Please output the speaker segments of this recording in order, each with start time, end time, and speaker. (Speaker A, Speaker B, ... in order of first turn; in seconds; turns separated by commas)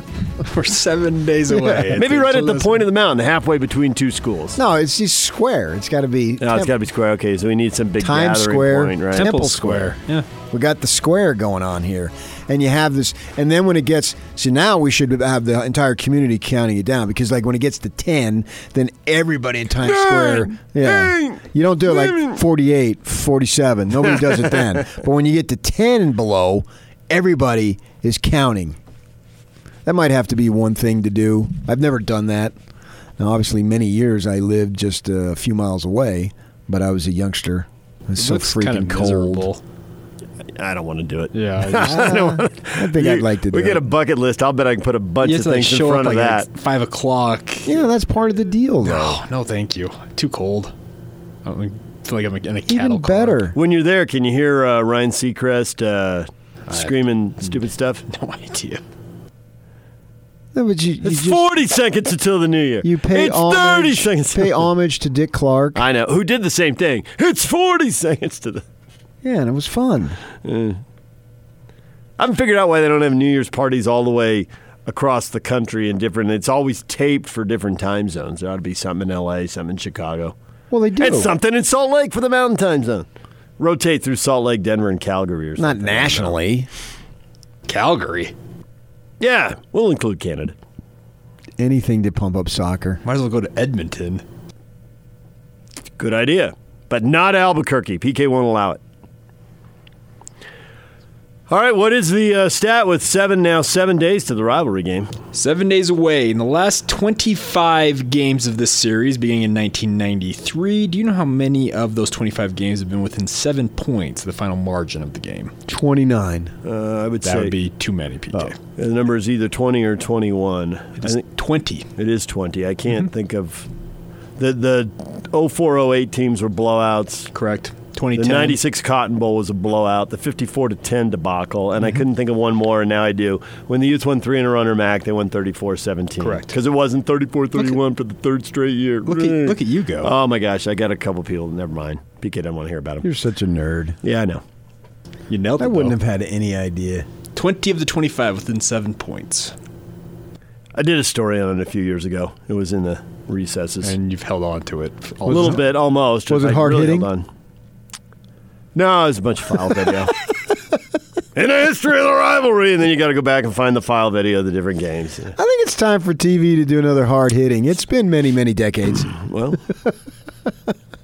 Speaker A: 0.4-2.8, Speaker B: 1.5-2.0, Speaker C: 1.9-4.6, Speaker B: 4.5-6.7, Speaker C: 6.4-9.3, Speaker B: 8.0-9.9, Speaker A: 9.1-10.3, Speaker B: 10.5-28.8, Speaker C: 19.8-22.4, Speaker C: 24.1-24.6, Speaker B: 29.8-32.5, Speaker B: 33.2-39.5, Speaker A: 38.1-39.6, Speaker C: 40.6-46.5, Speaker A: 41.3-42.1, Speaker B: 41.8-43.8, Speaker A: 45.2-47.8, Speaker B: 47.6-49.2, Speaker A: 48.8-50.7, Speaker A: 51.4-53.5, Speaker B: 52.7-53.5, Speaker C: 53.5-58.0, Speaker A: 56.7-56.9, Speaker A: 58.1-58.8, Speaker B: 60.5-61.4, Speaker C: 61.0-64.7, Speaker B: 62.8-65.8, Speaker C: 65.8-68.6, Speaker B: 69.2-70.2, Speaker C: 70.4-70.8, Speaker C: 72.2-80.3, Speaker B: 80.7-81.3, Speaker C: 81.0-83.0, Speaker C: 83.6-86.4, Speaker B: 85.6-86.7, Speaker A: 87.7-88.3, Speaker C: 89.2-90.5, Speaker B: 91.6-93.0, Speaker A: 93.0-94.2, Speaker C: 96.0-98.8, Speaker C: 101.5-105.1, Speaker A: 105.3-115.5, Speaker B: 115.7-116.5, Speaker C: 116.6-117.5, Speaker A: 117.2-118.6, Speaker C: 118.8-121.2, Speaker A: 121.0-121.9, Speaker C: 122.0-123.7, Speaker C: 124.4-127.3, Speaker A: 127.3-128.6, Speaker C: 128.1-143.1, Speaker A: 136.2-136.5, Speaker A: 139.1-140.1, Speaker B: 143.0-144.0, Speaker C: 144.0-144.4, Speaker A: 145.3-146.0, Speaker B: 145.6-147.1, Speaker A: 147.3-149.5, Speaker C: 150.7-153.9, Speaker A: 153.8-155.6, Speaker C: 155.2-157.2, Speaker B: 155.3-155.6, Speaker B: 156.3-157.1, Speaker C: 158.7-160.2, Speaker C: 161.3-165.3, Speaker B: 165.3-169.1, Speaker C: 169.2-169.6